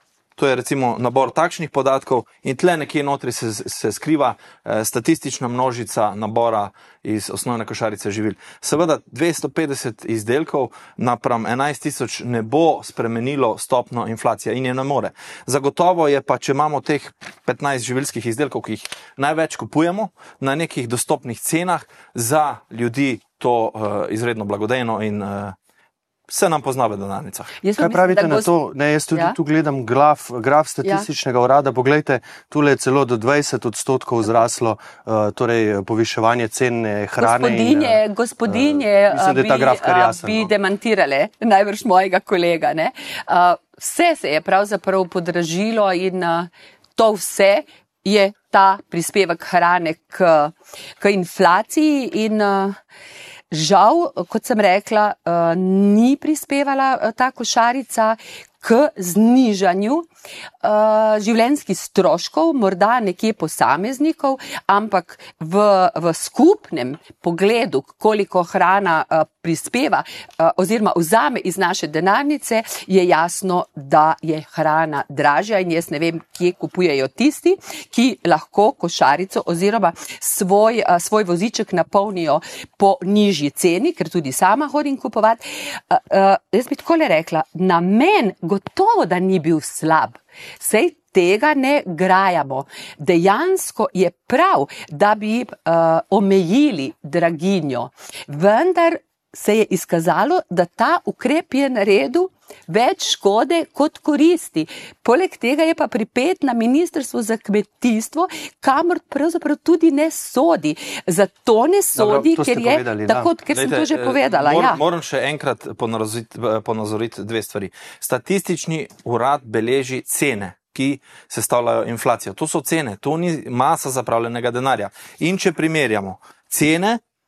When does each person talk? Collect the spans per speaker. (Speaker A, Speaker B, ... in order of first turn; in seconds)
Speaker A: 0.4-25.6, 26.3-27.6, 113.5-127.0
Speaker B: 27.6-28.5, 37.2-52.8, 53.5-60.1, 60.6-114.8
Speaker C: 27.8-40.5, 112.0-113.3